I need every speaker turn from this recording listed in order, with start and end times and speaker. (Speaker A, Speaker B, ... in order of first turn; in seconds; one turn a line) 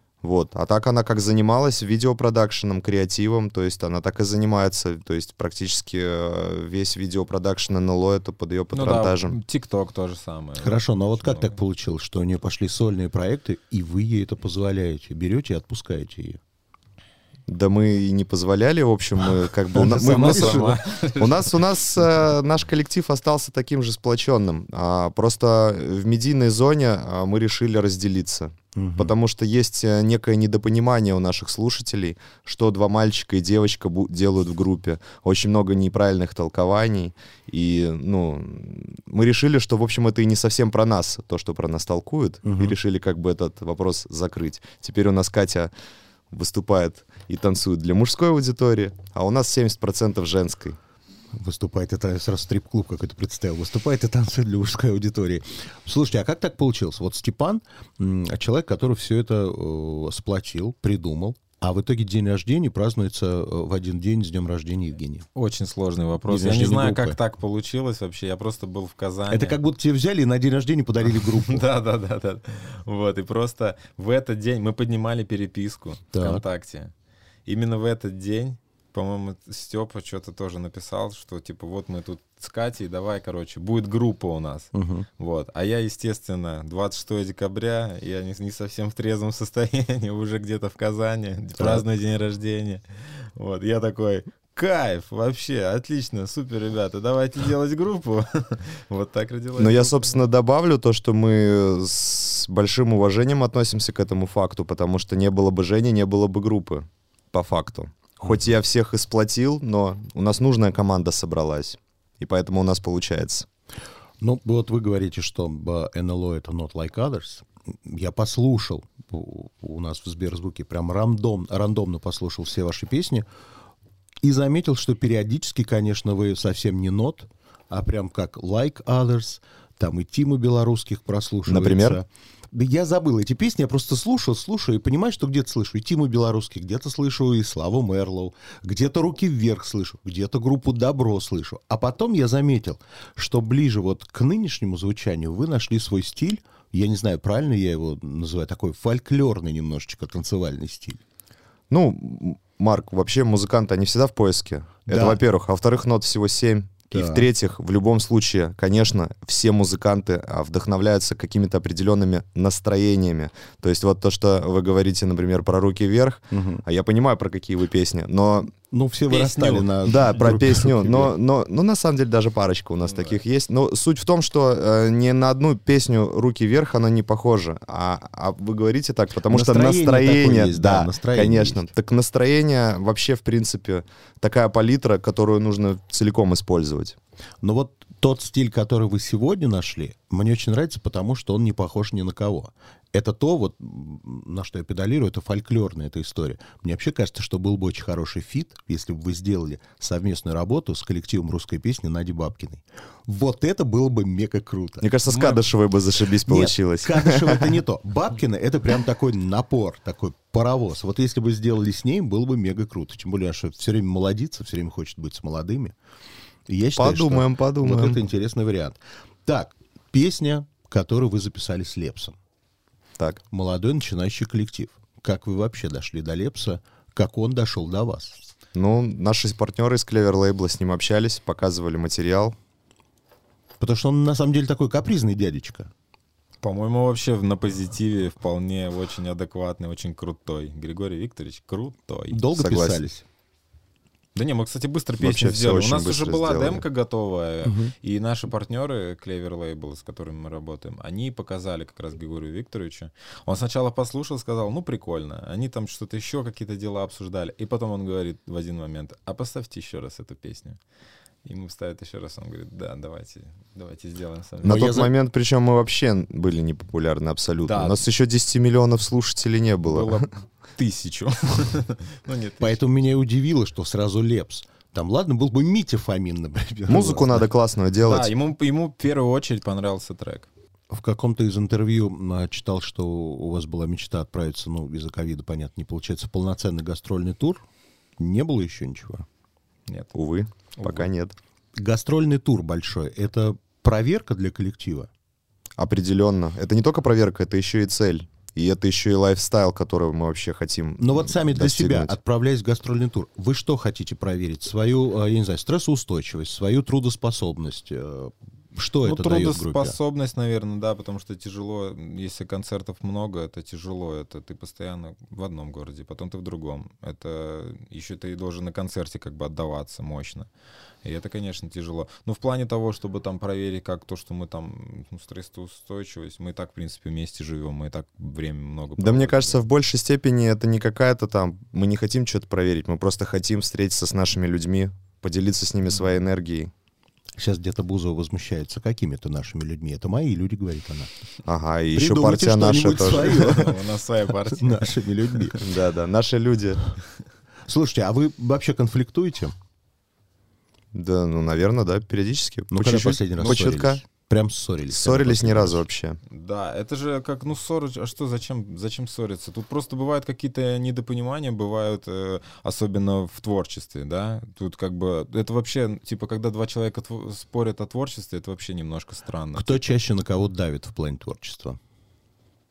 Speaker A: 0.2-9.4
Speaker B: 8.7-11.6
Speaker C: 10.6-16.4
Speaker A: 17.5-45.7
Speaker C: 19.8-20.8
Speaker B: 19.8-22.1
Speaker C: 28.8-29.2
Speaker C: 42.5-42.8
Speaker A: 46.3-50.8
Speaker C: 51.3-65.3
Speaker B: 65.3-69.6
Speaker C: 66.3-67.2
Speaker C: 69.3-71.7
Speaker B: 71.0-76.9
Speaker C: 76.1-76.4
Speaker B: 77.5-100.2
Speaker C: 84.7-85.1
Speaker C: 91.6-91.8
Speaker A: 99.6-113.5
Speaker C: 114.2-123.3
Speaker C: 124.2-151.0
Speaker A: 131.5-132.0
Speaker A: 151.7-168.5
Speaker C: 154.9-155.2
Speaker C: 156.9-157.3
Speaker C: 166.3-166.6
Speaker C: 168.7-171.2
Speaker B: 169.1-170.4
Speaker A: 169.8-187.0
Speaker B: 172.8-173.2
Speaker C: 179.3-181.7
Speaker C: 187.4-205.3
Speaker A: 204.8-207.6
Speaker C: 206.2-215.8
Speaker C: 216.5-222.2
Speaker A: 216.7-218.0
Speaker C: 223.3-228.2
Speaker A: 228.6-232.3
Speaker C: 233.6-235.7
Speaker B: 236.4-242.3
Speaker C: 242.1-243.1
Speaker A: 242.3-242.8
Speaker B: 244.1-260.6
Speaker A: 245.0-246.6
Speaker C: 247.4-247.7
Speaker B: 261.2-264.6
Speaker C: 264.4-264.9
Speaker A: 264.4-270.1
Speaker B: 267.4-267.8
Speaker B: 269.6-272.6
Speaker C: 272.4-277.3
Speaker A: 276.7-278.1
Speaker B: 277.8-280.3
Speaker C: 280.7-287.4
Speaker C: 288.0-289.1
Speaker B: 289.7-290.0
Speaker A: 289.9-291.1
Speaker B: 290.5-290.9
Speaker C: 291.6-294.9
Speaker A: 295.6-302.0
Speaker C: 300.8-309.8
Speaker B: 308.8-320.3
Speaker B: 320.8-329.4
Speaker A: 328.8-336.5
Speaker C: 337.2-340.9
Speaker A: 341.2-343.4
Speaker C: 341.7-343.6
Speaker B: 342.9-345.4
Speaker C: 344.4-345.4
Speaker A: 345.4-346.7
Speaker C: 347.5-349.3
Speaker A: 350.7-353.8
Speaker C: 352.5-355.6
Speaker A: 354.7-356.0
Speaker B: 356.1-369.6
Speaker C: 369.3-371.6